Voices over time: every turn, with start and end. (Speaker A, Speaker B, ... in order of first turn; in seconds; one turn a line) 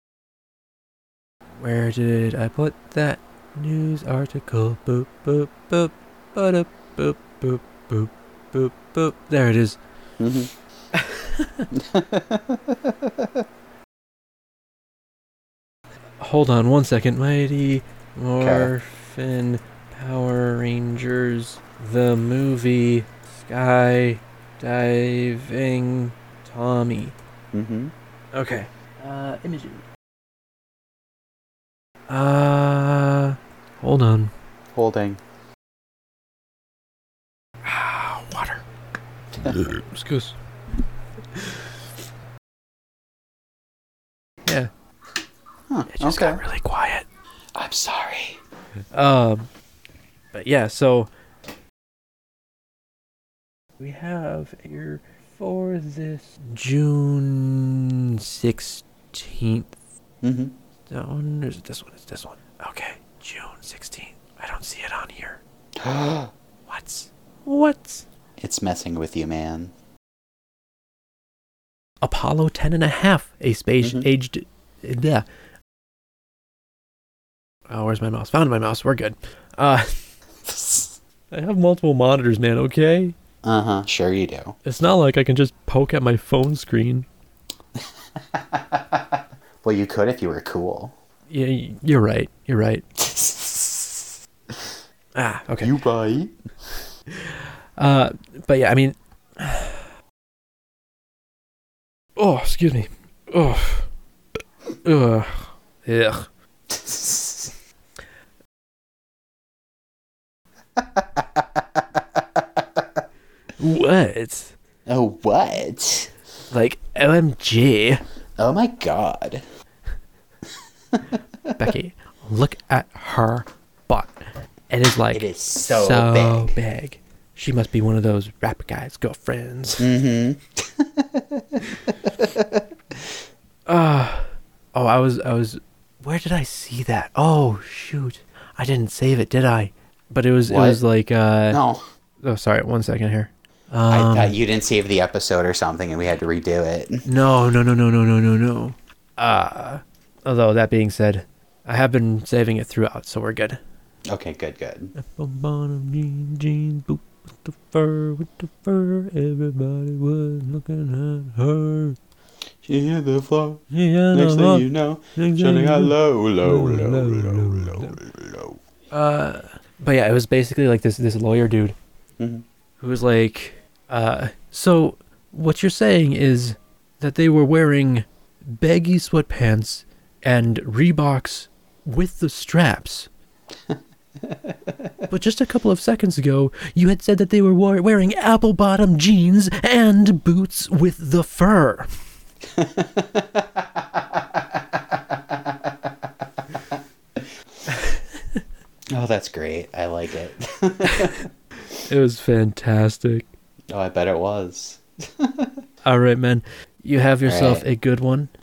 Speaker A: 1.6-9.8
Speaker B: 10.2-10.5
Speaker A: 10.9-11.7
Speaker B: 11.7-13.4
Speaker A: 16.2-27.1
Speaker B: 18.4-18.7
Speaker B: 27.5-27.9
Speaker A: 28.3-29.8
Speaker A: 32.1-34.3
Speaker B: 34.7-35.2
Speaker A: 37.6-38.6
Speaker A: 39.4-40.4
Speaker A: 44.4-44.7
Speaker B: 45.7-46.4
Speaker A: 45.9-47.0
Speaker B: 47.5-48.4
Speaker A: 48.9-49.5
Speaker A: 50.3-51.1
Speaker A: 53.8-59.8
Speaker B: 60.2-60.5
Speaker A: 60.9-65.4
Speaker B: 65.8-66.3
Speaker A: 66.7-68.0
Speaker B: 68.4-69.7
Speaker A: 72.0-75.2
Speaker B: 73.8-74.1
Speaker A: 77.7-83.2
Speaker B: 83.4-84.6
Speaker A: 84.6-87.1
Speaker B: 88.3-90.9
Speaker A: 91.3-94.1
Speaker A: 95.1-95.7
Speaker B: 95.6-96.4
Speaker A: 97.1-99.9
Speaker A: 102.2-103.9
Speaker A: 104.8-106.3
Speaker B: 106.7-107.5
Speaker B: 110.8-112.8
Speaker A: 113.6-114.5
Speaker B: 114.9-116.1
Speaker A: 116.5-118.0
Speaker B: 118.4-119.4
Speaker B: 120.9-121.5
Speaker A: 121.5-124.2
Speaker A: 124.7-129.9
Speaker B: 125.1-126.6
Speaker B: 129.8-133.1
Speaker A: 133.7-141.6
Speaker B: 140.5-140.8
Speaker B: 141.5-141.8
Speaker A: 142.2-144.3
Speaker B: 143.9-147.1
Speaker A: 147.1-153.6
Speaker B: 154.1-154.9
Speaker A: 154.9-162.0
Speaker B: 162.6-168.6
Speaker A: 163.7-168.0
Speaker A: 168.9-171.8
Speaker B: 172.2-172.4
Speaker A: 172.8-183.1
Speaker B: 183.7-184.9
Speaker A: 185.1-191.9
Speaker B: 192.5-195.9
Speaker A: 197.7-198.4
Speaker B: 198.9-201.2
Speaker A: 201.8-203.3
Speaker B: 203.7-205.6
Speaker A: 205.8-208.3
Speaker B: 207.2-207.6